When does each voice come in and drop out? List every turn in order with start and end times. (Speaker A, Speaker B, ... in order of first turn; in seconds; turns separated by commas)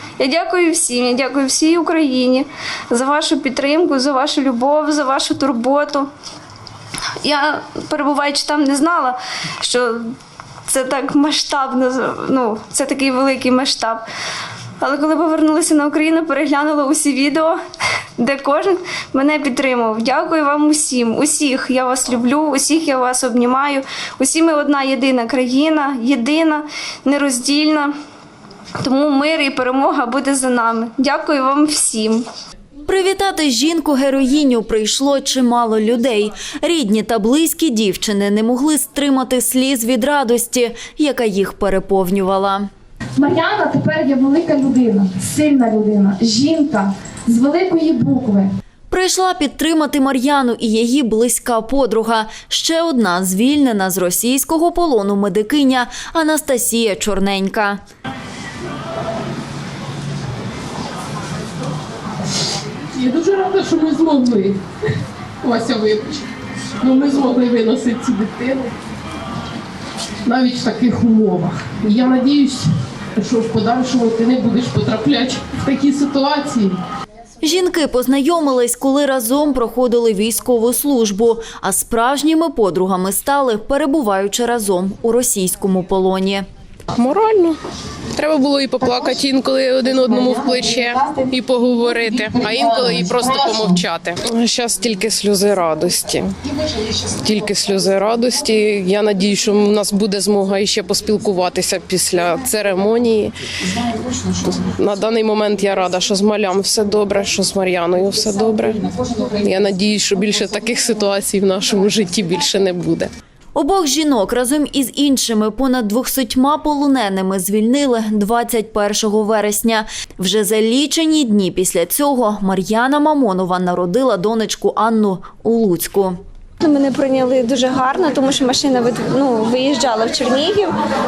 Speaker A: 0.2-6.1, Speaker A: 7.2-10.1, Speaker A: 10.7-14.0, Speaker A: 14.8-17.6, Speaker A: 18.2-27.9, Speaker A: 28.8-32.2, Speaker B: 32.9-42.7, Speaker C: 43.2-48.5, Speaker B: 48.9-57.8, Speaker D: 62.9-64.6, Speaker D: 65.4-66.3, Speaker D: 66.8-68.7, Speaker D: 70.3-76.7, Speaker B: 77.4-86.4, Speaker E: 87.0-87.6, Speaker E: 88.2-91.0, Speaker D: 89.2-89.6, Speaker D: 90.2-92.3, Speaker E: 91.7-96.3, Speaker D: 93.8-94.2, Speaker E: 97.2-103.3, Speaker D: 100.6-101.4, Speaker E: 104.4-112.5, Speaker D: 111.0-113.1, Speaker B: 113.5-126.2, Speaker A: 126.6-130.7